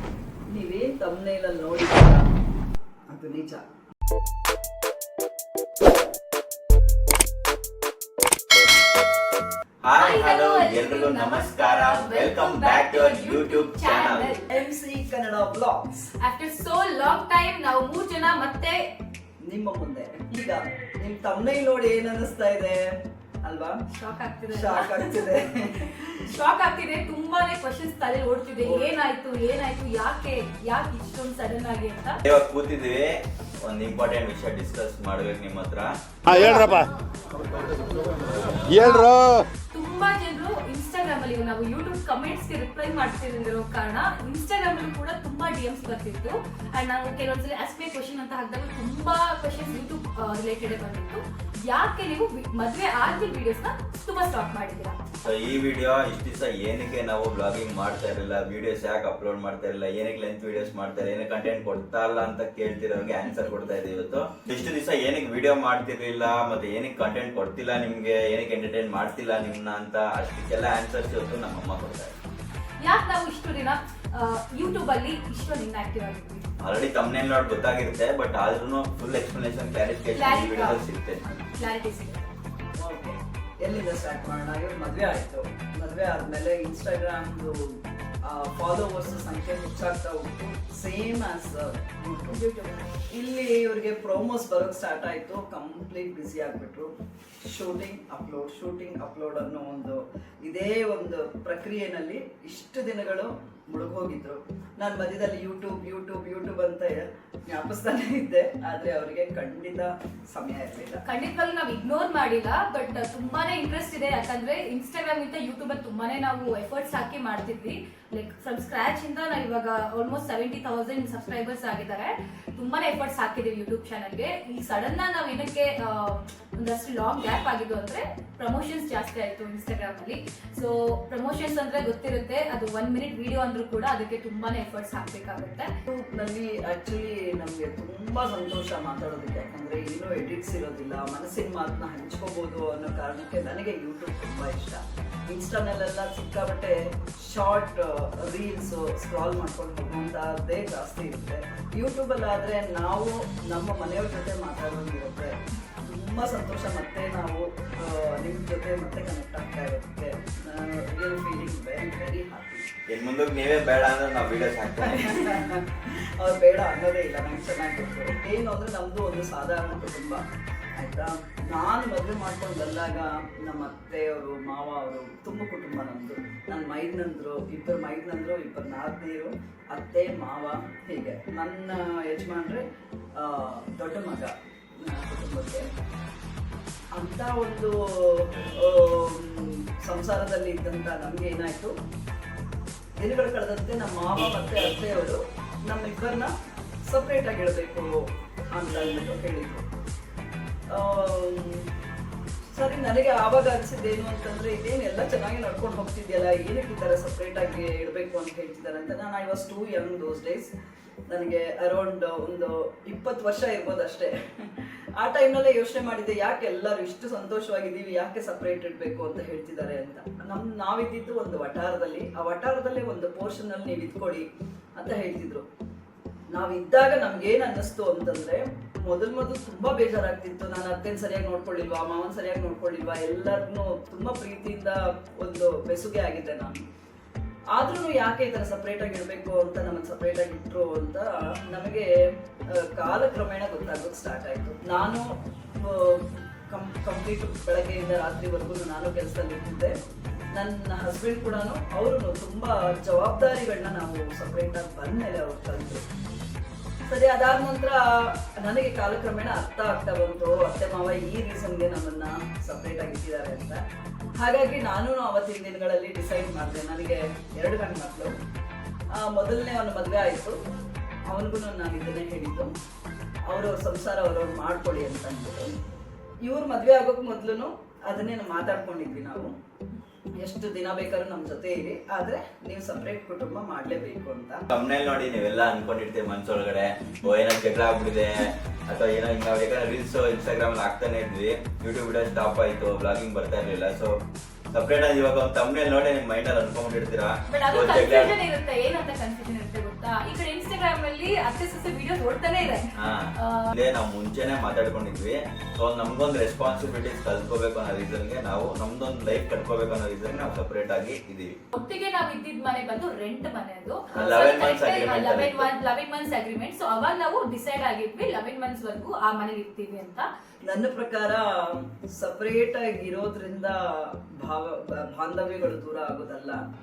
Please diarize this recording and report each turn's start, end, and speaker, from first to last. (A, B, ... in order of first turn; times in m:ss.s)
0:00.5-0:02.3 A
0:03.1-0:03.6 A
0:09.8-0:14.4 B
0:10.0-0:14.5 C
0:14.4-0:16.1 A
0:16.2-0:18.9 C
0:19.4-0:22.9 A
0:23.4-0:23.8 A
0:23.9-0:25.3 C
0:24.5-0:26.2 A
0:26.2-0:32.2 C
0:28.6-0:29.0 A
0:32.2-0:36.8 B
0:38.6-0:55.2 C
0:55.2-1:12.2 B
1:03.4-1:03.7 C
1:12.8-1:16.4 C
1:16.6-1:21.2 B
1:20.1-1:20.8 C
1:21.6-1:22.3 C
1:22.8-1:27.5 A
1:28.2-1:32.4 A
1:32.3-1:32.8 C
1:33.1-1:36.9 A
1:37.5-1:51.0 A
1:51.0-2:15.7 C
2:15.9-2:42.6 A
2:42.9-2:45.1 B
2:44.8-2:50.2 A
2:50.8-3:02.6 A
3:03.2-3:04.3 A
3:04.8-3:05.7 A
3:06.9-3:11.7 A
3:13.0-3:16.3 A
3:16.9-3:17.9 A
3:18.5-3:19.6 A
3:20.7-3:21.7 A
3:22.6-3:30.5 A
3:31.1-3:45.4 A
3:46.3-3:56.6 A
3:57.5-4:01.9 A
4:02.5-4:05.0 A
4:05.6-4:09.7 A
4:10.3-4:15.8 A
4:16.9-4:23.6 A
4:24.2-4:28.1 A
4:28.9-4:30.3 A
4:31.1-4:32.5 A
4:33.3-4:35.5 A
4:36.2-4:39.3 A
4:40.2-4:44.4 A
4:44.5-4:53.9 B
4:54.5-4:58.1 B
4:57.3-5:03.5 C
5:02.8-5:11.3 B
5:11.5-5:20.1 C
5:13.9-5:15.5 B
5:20.5-5:26.4 A